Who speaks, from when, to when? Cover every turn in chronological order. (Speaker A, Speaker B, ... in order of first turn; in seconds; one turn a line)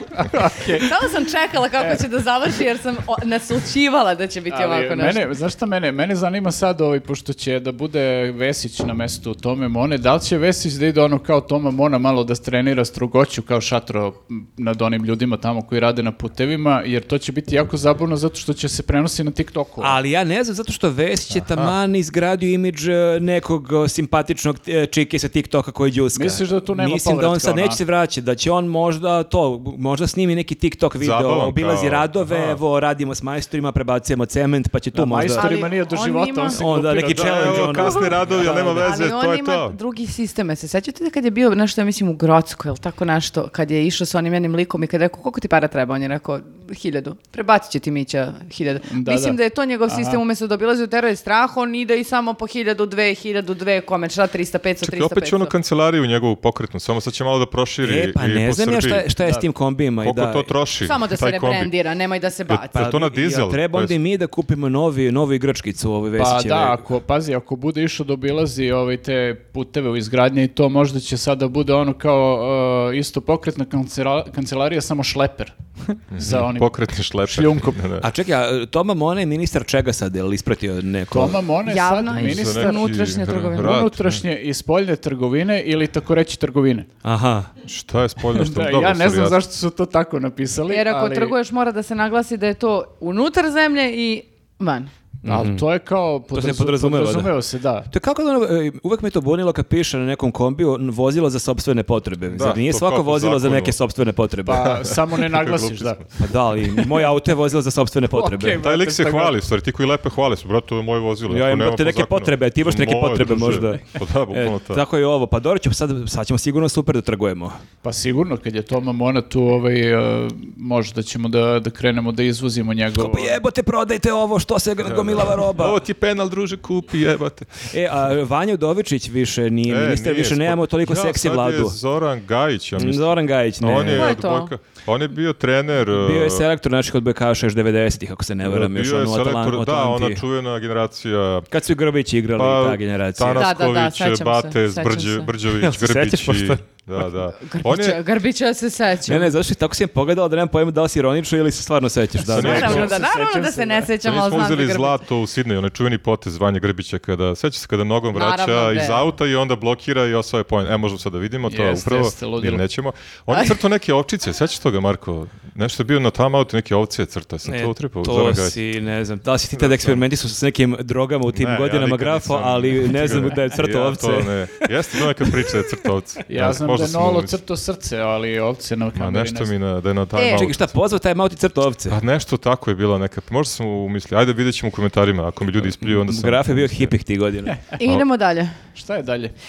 Speaker A: 0.2-1.0
Speaker B: 0.8-5.2
Speaker A: 4.5-19.9
Speaker C: 19.8-35.5
Speaker D: 21.3-21.7
Speaker A: 26.1-27.8
Speaker D: 31.0-32.6
Speaker A: 34.9-38.6
Speaker B: 35.3-36.6
Speaker C: 36.5-39.1
Speaker D: 37.1-39.8
Speaker B: 38.8-55.5
Speaker A: 48.9-50.2
Speaker D: 54.8-59.1
Speaker C: 57.8-60.5
Speaker A: 59.2-59.5
Speaker D: 60.0-61.7
Speaker B: 60.8-62.8
Speaker D: 62.5-63.9
Speaker C: 62.7-66.8
Speaker A: 66.2-77.8
Speaker D: 76.1-78.1
Speaker C: 78.0-81.4
Speaker A: 81.1-83.0
Speaker B: 81.7-83.9
Speaker D: 82.1-84.2
Speaker A: 83.5-86.9
Speaker C: 87.0-87.5
Speaker D: 87.7-89.4
Speaker A: 88.3-91.3
Speaker B: 90.7-94.9
Speaker C: 95.2-95.6
Speaker A: 95.2-97.9
Speaker C: 96.3-97.3
Speaker C: 97.9-104.8
Speaker D: 102.3-103.8
Speaker A: 104.4-106.0
Speaker D: 104.9-106.0
Speaker C: 106.2-108.6
Speaker A: 106.8-107.1
Speaker A: 108.1-109.3
Speaker D: 108.6-114.8
Speaker C: 111.3-117.5
Speaker A: 117.8-123.4
Speaker C: 123.0-125.8
Speaker D: 124.8-127.7
Speaker C: 127.6-131.8
Speaker D: 129.7-133.0
Speaker C: 132.8-134.2
Speaker D: 133.6-136.4
Speaker B: 133.8-134.5
Speaker C: 135.9-140.2
Speaker D: 138.4-141.5
Speaker C: 141.5-143.5
Speaker D: 142.3-148.0
Speaker B: 143.3-145.3
Speaker C: 145.6-146.7
Speaker B: 147.4-149.3
Speaker C: 149.1-152.9
Speaker D: 152.3-152.9
Speaker A: 152.3-153.9
Speaker B: 152.3-155.0
Speaker D: 154.0-168.6
Speaker B: 158.1-159.0
Speaker A: 161.5-162.6
Speaker C: 167.4-175.7
Speaker D: 169.5-170.0
Speaker D: 171.3-177.4
Speaker A: 176.3-179.5
Speaker D: 178.9-180.7
Speaker B: 180.1-180.5
Speaker C: 180.3-182.0
Speaker D: 181.9-186.9
Speaker C: 185.6-187.6
Speaker A: 187.5-187.8
Speaker B: 187.8-188.6
Speaker A: 188.7-189.3